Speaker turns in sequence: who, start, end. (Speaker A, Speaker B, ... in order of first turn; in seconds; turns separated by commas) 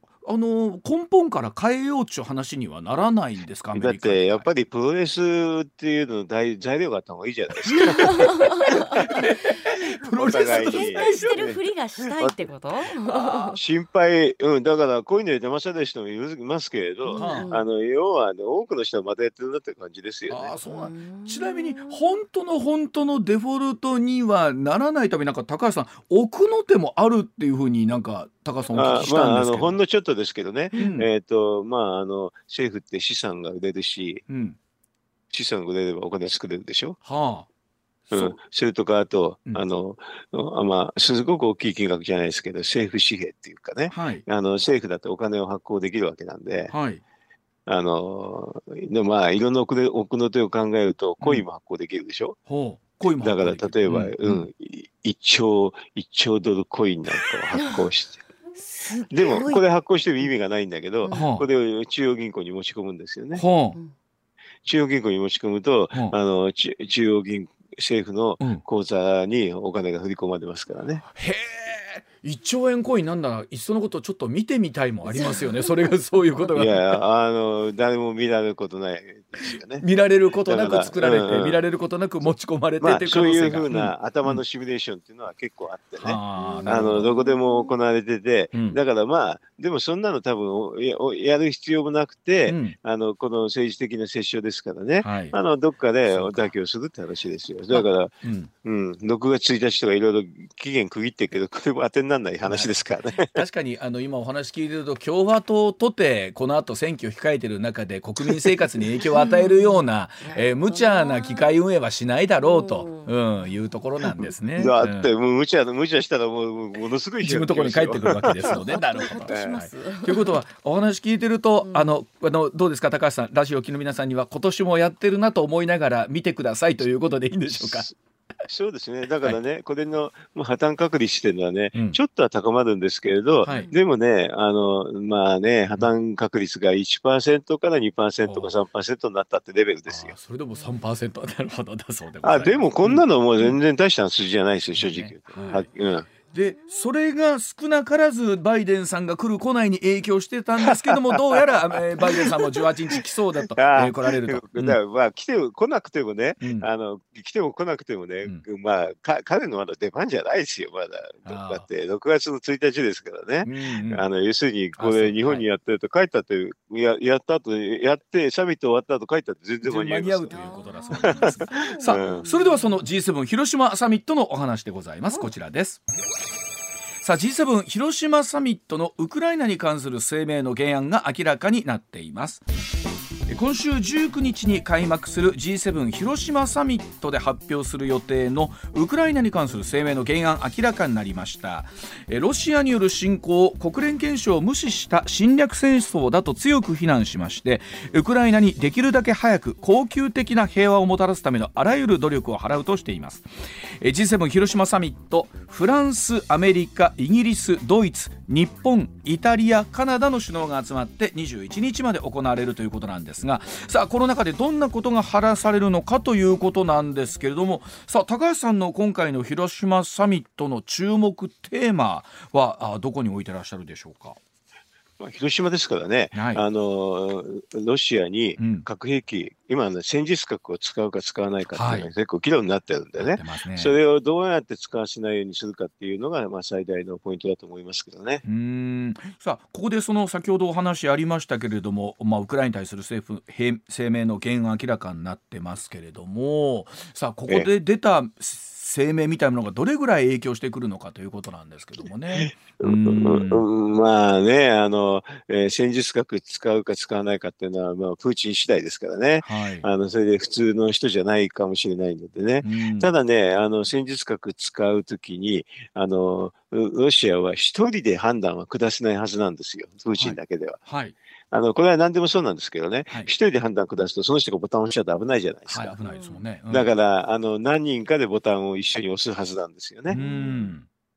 Speaker A: 0.2-4.5, Speaker B: 3.7-9.3, Speaker A: 7.7-8.3, Speaker C: 7.8-13.6, Speaker A: 8.9-11.4, Speaker B: 10.0-11.6, Speaker B: 13.0-20.5, Speaker C: 17.0-17.7, Speaker A: 17.2-17.5, Speaker A: 20.3-29.8, Speaker C: 20.6-22.1, Speaker B: 28.7-34.2, Speaker A: 30.8-31.1, Speaker A: 34.3-34.6, Speaker B: 35.3-37.0, Speaker A: 37.0-37.5, Speaker B: 38.1-46.7, Speaker A: 43.9-44.2, Speaker A: 46.7-47.0, Speaker B: 47.7-52.4, Speaker A: 52.5-54.5, Speaker B: 53.2-58.2, Speaker C: 57.5-57.8, Speaker C: 58.6-59.6, Speaker B: 59.1-63.4, Speaker C: 61.0-61.3, Speaker A: 61.1-61.5, Speaker A: 63.3-63.8, Speaker B: 64.6-71.0, Speaker A: 71.1-77.0, Speaker C: 75.0-76.5, Speaker B: 76.5-79.8, Speaker A: 79.8-84.4, Speaker B: 80.5-81.6, Speaker B: 82.2-103.3, Speaker A: 86.0-87.1, Speaker C: 86.4-87.8, Speaker A: 88.5-88.8, Speaker A: 92.5-92.8, Speaker A: 95.0-95.3, Speaker A: 96.0-96.5, Speaker A: 97.7-98.5, Speaker A: 102.4-102.8, Speaker A: 103.3-115.1, Speaker B: 108.3-108.8, Speaker C: 109.0-111.5, Speaker C: 112.4-113.1, Speaker B: 114.5-118.6, Speaker A: 117.2-127.9, Speaker C: 118.4-120.3, Speaker B: 119.3-119.5, Speaker C: 121.6-121.9, Speaker B: 127.5-127.9, Speaker B: 128.5-140.1, Speaker A: 131.7-132.0, Speaker A: 133.4-133.7, Speaker C: 133.4-133.8, Speaker A: 138.2-138.5, Speaker A: 139.9-143.6, Speaker B: 142.2-146.1, Speaker A: 144.8-145.7, Speaker A: 146.3-154.8, Speaker C: 146.3-146.8, Speaker B: 150.6-152.6, Speaker B: 153.6-170.3, Speaker A: 156.4-156.7, Speaker A: 161.2-161.7, Speaker A: 163.4-164.0, Speaker A: 164.8-165.4, Speaker A: 169.6-175.8, Speaker C: 170.3-172.8, Speaker B: 171.0-172.2, Speaker A: 177.0-182.4, Speaker A: 183.3-203.2, Speaker A: 203.8-224.2, Speaker B: 225.0-238.2, Speaker A: 226.1-226.4, Speaker A: 228.4-228.7, Speaker A: 231.5-231.9, Speaker A: 233.0-233.8, Speaker A: 238.2-253.4, Speaker B: 252.2-270.6, Speaker A: 259.2-259.7, Speaker A: 262.4-262.9, Speaker A: 269.9-270.9, Speaker B: 271.3-275.8, Speaker A: 275.5-276.7, Speaker C: 275.9-276.2, Speaker B: 276.5-280.5, Speaker A: 279.9-280.6, Speaker C: 279.9-280.2